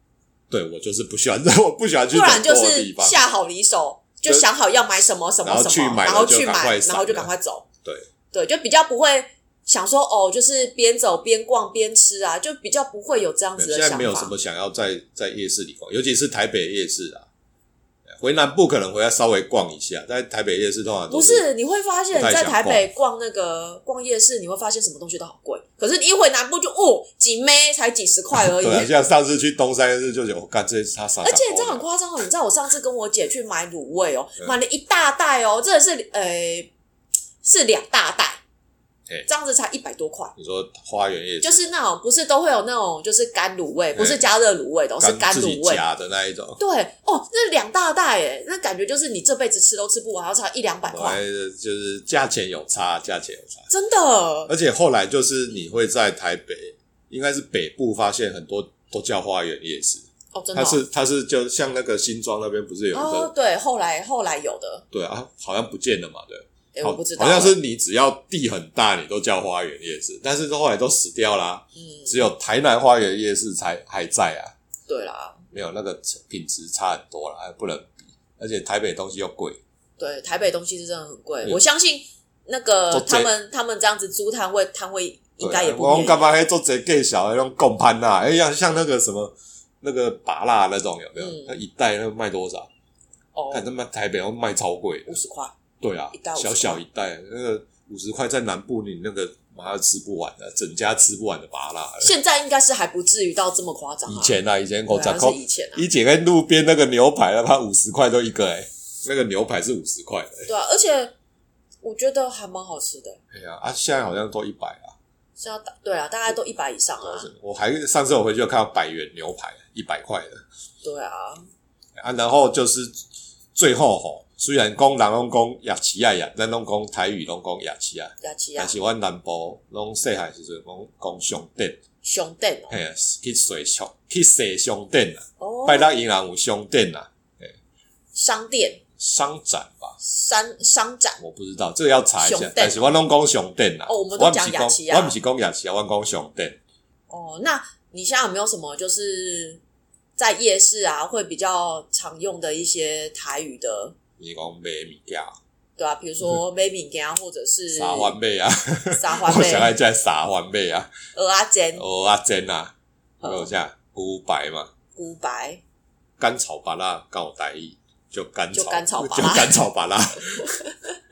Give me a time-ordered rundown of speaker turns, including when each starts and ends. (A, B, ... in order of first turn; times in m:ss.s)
0:00.5-0:03.2 A
0:02.1-0:07.6 B
0:05.4-0:07.3 A
0:08.3-0:14.3 B
0:13.6-0:17.2 A
0:18.2-0:21.4 A
0:21.1-0:28.9 B
0:22.1-0:22.9 A
0:28.4-0:31.8 A
0:31.2-0:36.7 B
0:37.4-0:38.4 B
0:39.3-0:40.3 B
0:40.4-0:41.7 A
0:41.4-0:45.8 B
0:43.9-0:44.2 A
0:45.0-0:46.6 A
0:46.6-0:51.2 B
0:50.8-0:53.7 A
0:53.7-0:54.5 B
0:54.5-1:03.3 A
1:00.3-1:00.8 B
1:02.9-1:04.8 B
1:04.9-1:14.5 A
1:06.7-1:07.6 B
1:11.8-1:12.2 B
1:14.9-1:15.4 B
1:15.5-1:19.6 A
1:20.0-1:26.2 B
1:22.9-1:23.3 A
1:25.4-1:32.7 A
1:31.2-1:31.5 B
1:33.3-1:33.6 B
1:33.5-1:35.2 A
1:35.1-1:35.5 B
1:35.8-1:42.1 A
1:36.1-1:36.8 B
1:42.0-1:45.8 B
1:44.0-1:50.5 A
1:50.5-1:51.1 B
1:51.8-1:53.2 B
1:53.3-1:54.9 A
1:55.4-1:57.3 B
1:57.0-2:00.4 A
2:00.8-2:01.4 B
2:02.0-2:03.0 A
2:03.5-2:11.8 A
2:08.2-2:08.8 B
2:12.0-2:12.7 B
2:12.7-2:17.5 A
2:15.4-2:16.1 B
2:18.1-2:18.8 B
2:19.0-2:20.0 A
2:20.0-2:21.2 B
2:21.2-2:26.6 A
2:22.2-2:22.9 B
2:23.9-2:25.1 B
2:27.1-2:29.6 B
2:30.2-2:33.9 B
2:34.2-2:35.3 A
2:35.8-2:38.1 B
2:37.7-2:40.9 A
2:38.9-2:39.8 B
2:41.1-2:41.8 B
2:41.8-2:44.7 A
2:43.2-2:43.5 B
2:45.0-2:45.6 B
2:46.2-2:50.6 A
2:48.5-2:49.6 B
2:50.6-2:50.9 B